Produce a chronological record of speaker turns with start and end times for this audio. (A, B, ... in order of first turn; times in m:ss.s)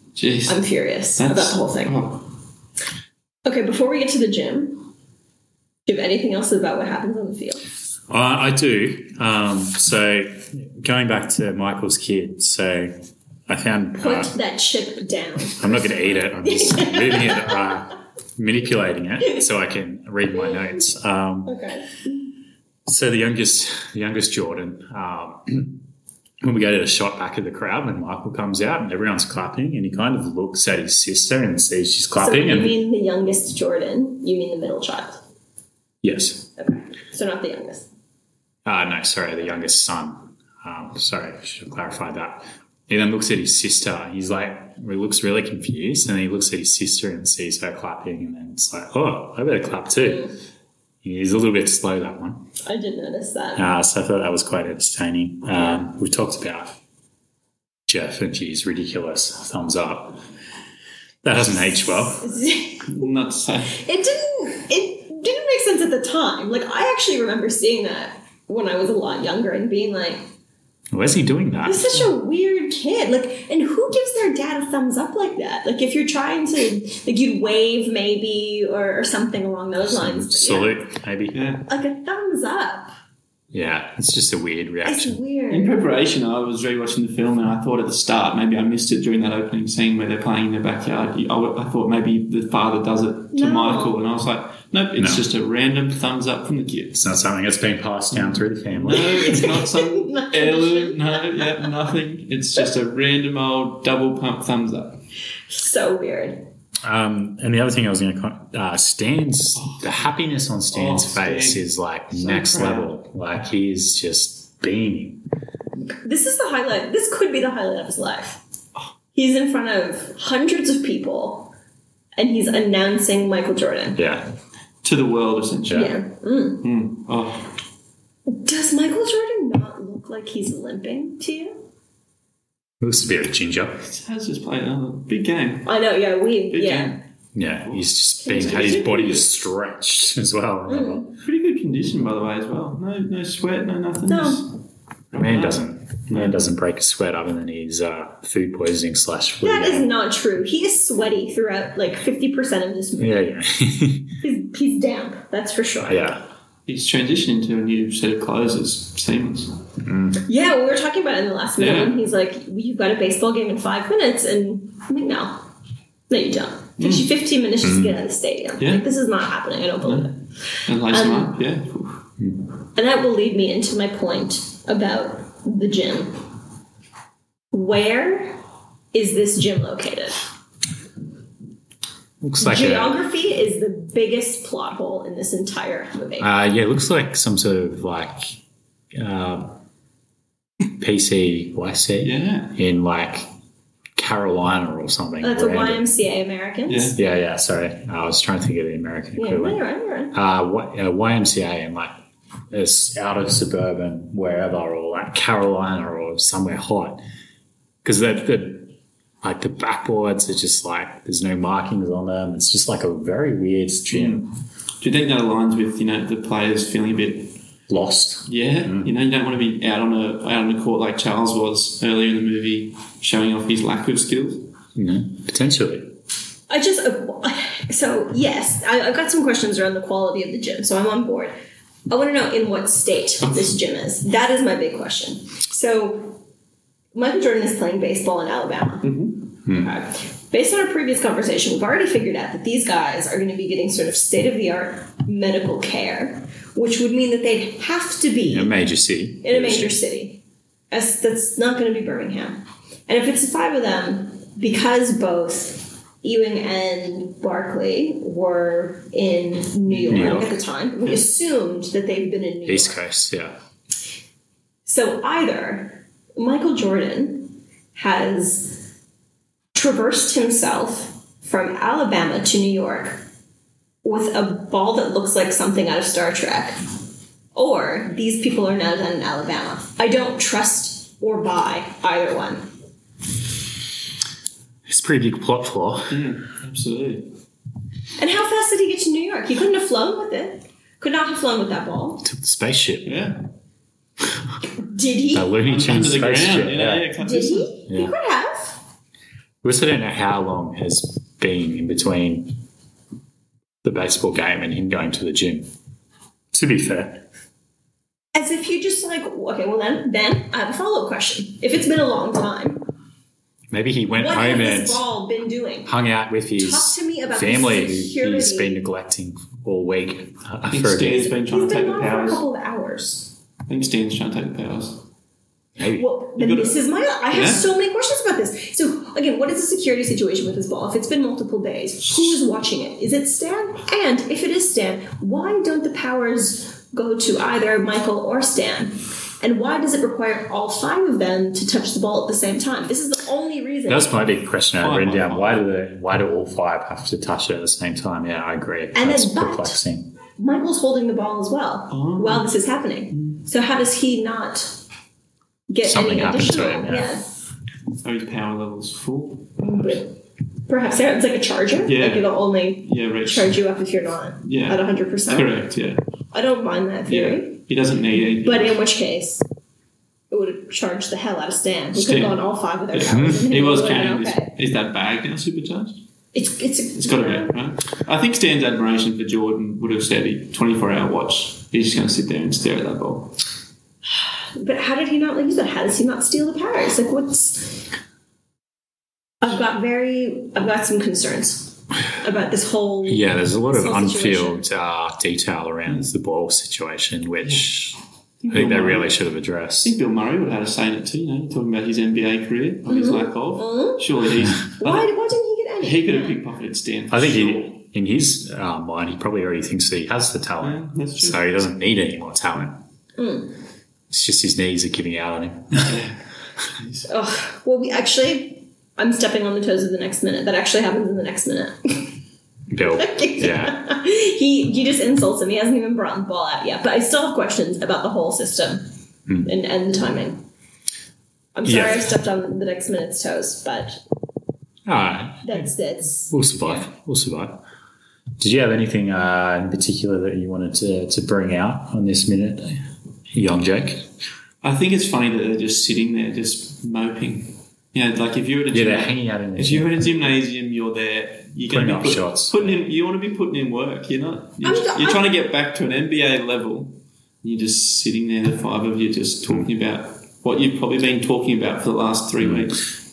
0:00.2-0:00.6 A
0:00.5-0:02.0 B
0:01.2-0:02.3 A
0:03.4-0:04.9 B
0:05.9-0:07.6 B
0:08.1-0:13.0 C
0:13.5-0:14.4 C
0:14.0-0:17.8 B
0:15.6-0:21.6 C
0:21.4-0:22.1 B
0:22.9-0:25.8 C
0:26.4-0:32.8 C
0:32.2-0:35.2 B
0:36.0-0:36.5 C
0:36.6-0:37.9 B
0:38.6-0:50.3 C
0:50.0-0:50.3 B
0:51.0-0:52.5 C
0:52.6-0:53.7 B
0:53.6-0:56.8 C
0:57.9-1:00.2 C
1:01.2-1:02.3 C
1:01.8-1:02.9 B
1:02.9-1:03.8 A
1:03.7-1:10.2 B
1:10.9-1:12.0 C
1:11.6-1:20.8 B
1:19.8-1:21.4 C
1:21.3-1:21.7 A
1:21.7-1:22.9 B
1:23.5-1:25.2 C
1:24.8-1:25.8 B
1:25.5-1:37.0 A
1:33.3-1:34.0 B
1:35.0-1:35.2 C
1:36.9-1:39.4 C
1:38.1-1:45.0 A
1:38.9-1:41.7 B
1:45.5-1:46.4 B
1:46.8-1:55.2 C
1:49.6-1:50.0 A
1:50.7-1:52.9 A
1:55.9-1:58.4 B
1:59.1-2:01.5 B
2:02.2-2:04.0 B
2:04.0-2:04.3 C
2:04.8-2:06.0 A
2:05.7-2:06.7 B
2:06.6-2:07.5 A
2:08.3-2:11.6 B
2:12.8-2:13.8 C
2:13.8-2:15.7 A
2:15.6-2:17.0 B
2:16.5-2:17.0 A
2:17.3-2:21.1 C
2:17.6-2:19.3 A
2:20.7-2:21.1 B
2:21.2-2:24.5 A
2:24.1-2:24.4 B
2:25.1-2:26.4 A
2:25.1-2:29.9 C
2:29.4-2:33.2 B
2:33.0-2:34.2 C
2:34.2-2:36.2 B
2:35.9-2:36.2 C
2:36.7-2:39.6 A
2:39.8-2:40.2 C
2:40.3-2:45.4 B
2:41.6-2:42.0 A
2:46.1-2:51.4 B
2:46.8-2:47.1 A
2:47.6-2:48.0 C
2:48.6-2:48.9 A
2:49.8-2:50.1 A
2:50.7-2:52.0 A
2:52.8-2:56.2 B
2:57.5-2:58.4 B
2:58.9-3:00.2 B
3:02.2-3:03.0 C
3:02.4-3:06.3 B
3:06.2-3:08.4 C
3:08.9-3:09.5 C
3:10.6-3:13.3 C
3:12.0-3:12.6 A
3:14.0-3:15.9 C
3:15.2-3:17.0 B
3:16.7-3:17.0 A
3:17.0-3:19.6 C
3:19.2-3:20.2 B
3:20.1-3:21.9 C
3:22.5-3:27.0 C
3:27.8-3:34.3 C
3:33.9-3:37.4 A
3:37.7-3:38.9 C
3:38.3-3:44.5 A
3:44.8-3:45.9 C
3:46.5-3:51.4 B
3:51.9-3:56.2 B
3:53.2-3:53.6 A
3:56.9-4:08.6 B
3:58.8-3:59.2 A
3:59.5-3:59.7 C
4:08.3-4:09.8 C
4:09.2-4:22.8 B
4:19.7-4:20.3 A
4:19.9-4:20.3 C
4:22.5-4:23.4 C
4:24.7-4:28.6 B
4:29.6-4:33.0 B
4:33.8-4:36.6 B
4:37.4-4:42.4 B
4:44.7-4:46.1 C
4:45.9-4:47.1 A
4:48.0-4:52.0 B
4:52.0-4:53.0 C
4:52.9-4:53.2 A
4:54.6-4:55.3 B
4:55.1-4:56.9 C
4:55.4-4:57.6 A
4:57.0-4:58.6 B
4:57.7-4:57.9 C
4:59.4-5:02.4 C
5:03.6-5:05.5 C
5:06.3-5:07.0 C
5:08.2-5:12.7 B
5:13.5-5:14.8 C
5:14.0-5:15.7 B
5:15.7-5:21.1 C
5:16.4-5:18.6 B
5:20.5-5:22.2 A
5:21.0-5:23.1 B
5:23.5-5:24.8 A
5:25.6-5:25.9 C
5:25.7-5:44.0 B
5:26.2-5:27.4 A
5:43.7-5:49.9 C
5:44.6-5:45.4 A
5:48.7-5:49.6 B
5:50.2-5:54.6 B
5:51.7-5:52.3 A
5:52.9-5:53.2 A
5:55.5-5:57.1 B
5:55.6-5:56.9 C
5:57.8-5:59.8 A
5:59.4-6:05.4 B
6:01.6-6:03.4 A
6:04.2-6:05.8 A
6:06.1-6:07.4 B
6:06.9-6:08.6 A
6:08.2-6:09.2 B
6:10.1-6:14.3 B
6:11.7-6:12.2 A
6:12.7-6:15.8 A
6:12.9-6:13.3 C
6:16.1-6:17.3 B
6:16.8-6:23.2 A
6:24.0-6:27.7 B
6:29.2-6:34.4 B
6:32.9-6:39.7 C
6:37.2-6:37.5 A
6:38.2-6:39.0 A
6:39.6-6:44.9 A
6:42.7-6:43.9 B
6:44.6-6:46.2 B
6:45.6-6:47.6 A
6:46.9-6:52.6 C
6:50.4-6:51.2 A
6:53.0-6:53.3 B
6:53.9-6:55.8 C
6:55.7-6:56.0 A
6:56.5-6:56.9 A
6:56.9-7:02.0 B
7:02.5-7:03.6 C
7:02.7-7:08.7 B
7:09.2-7:10.2 B
7:11.4-7:13.8 B
7:11.5-7:11.8 C
7:14.7-7:15.5 C
7:15.2-7:16.6 B
7:16.1-7:17.4 C
7:18.2-7:22.6 C
7:23.1-7:23.9 C
7:24.4-7:42.7 A
7:28.5-7:30.2 C
7:31.5-7:32.6 C
7:34.4-7:35.1 B
7:42.2-7:42.6 C